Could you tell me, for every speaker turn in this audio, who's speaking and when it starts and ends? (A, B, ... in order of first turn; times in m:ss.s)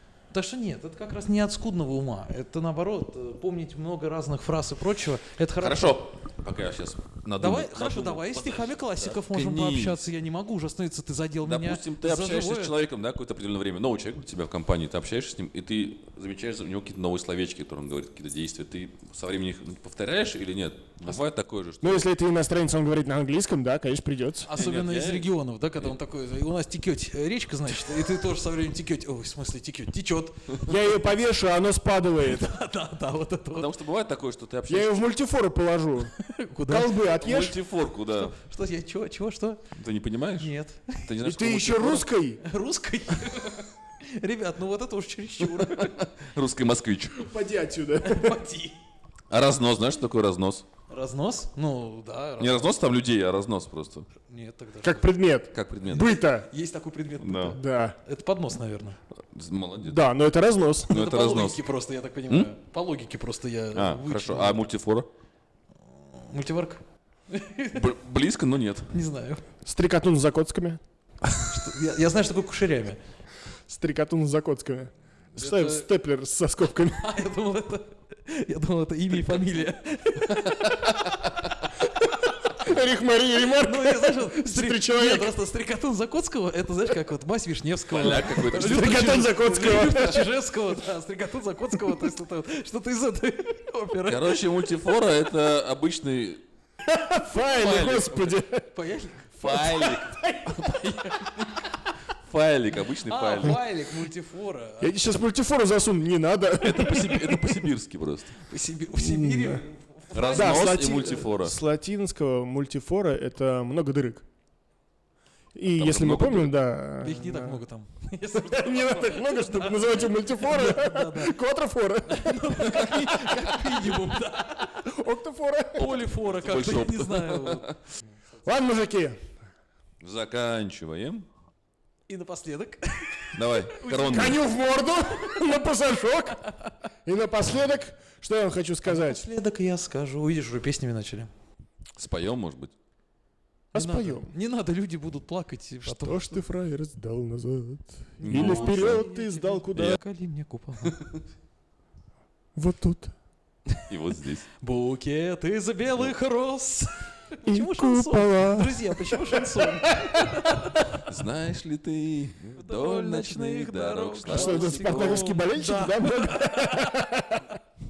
0:00.3-0:06.0 A
0:05.6-0:10.1 B
0:07.4-0:12.7 A
0:11.4-0:22.1 B
0:21.8-0:24.5 C
0:24.4-0:30.7 A
0:24.6-0:25.3 B
0:30.6-0:32.6 C
0:32.2-0:33.7 A
0:33.5-0:35.0 B
0:34.7-0:36.1 C
0:36.2-0:37.0 A
0:36.7-0:37.6 C
0:37.1-0:38.3 B
0:38.1-0:39.6 A
0:39.7-0:42.1 B
0:40.4-0:41.0 A
0:41.2-0:42.4 C
0:42.4-0:46.0 A
0:45.5-0:47.3 B
0:47.1-0:48.4 C
0:48.0-0:48.8 A
0:49.3-0:50.6 B
0:50.9-0:52.7 A
0:52.4-0:54.1 B
0:54.3-0:55.1 A
0:54.8-0:56.5 C
0:55.5-0:56.2 B
0:56.5-0:59.0 A
0:57.2-0:57.6 B
0:57.5-0:58.0 C
0:59.2-1:00.0 B
0:59.8-1:00.9 C
1:00.9-1:01.6 B
1:00.9-1:04.6 A
1:03.7-1:05.1 B
1:06.1-1:07.8 A
1:07.7-1:08.9 B
1:08.9-1:09.4 A
1:09.6-1:10.8 C
1:11.5-1:13.0 A
1:13.7-1:17.1 C
1:15.4-1:15.9 A
1:16.9-1:22.3 A
1:22.0-1:25.3 C
1:23.5-1:34.4 A
1:27.9-1:29.1 B
1:28.3-1:30.4 C
1:34.0-1:36.4 B
1:36.8-1:38.7 C
1:37.4-1:38.4 B
1:38.7-1:39.4 A
1:39.4-1:41.7 B
1:39.4-1:40.6 C
1:42.2-1:43.6 B
1:43.0-1:45.1 A
1:44.8-1:47.6 C
1:46.6-1:48.4 B
1:48.5-1:50.8 A
1:48.9-1:49.6 C
1:50.1-1:51.6 B
1:50.3-1:54.2 C
1:55.5-1:57.6 C
1:55.8-1:56.6 B
1:57.0-2:01.4 A
1:58.4-2:03.9 C
2:02.0-2:04.9 A
2:04.8-2:05.9 C
2:05.7-2:08.1 A
2:05.8-2:07.8 B
2:08.4-2:09.2 C
2:10.0-2:11.3 B
2:12.1-2:14.4 A
2:13.3-2:14.4 B
2:13.9-2:16.5 C
2:17.0-2:19.2 C
2:18.8-2:21.3 A
2:22.0-2:22.7 B
2:23.7-2:24.3 C
2:23.7-2:26.4 A
2:25.8-2:30.0 C
2:28.2-2:31.0 A
2:28.2-2:29.0 B
2:30.8-2:31.2 B
2:32.5-2:33.1 C
2:33.8-2:34.5 B
2:34.6-2:41.0 A
2:37.4-2:40.4 C
2:41.0-2:45.3 B
2:42.6-2:46.9 A
2:44.3-2:47.5 C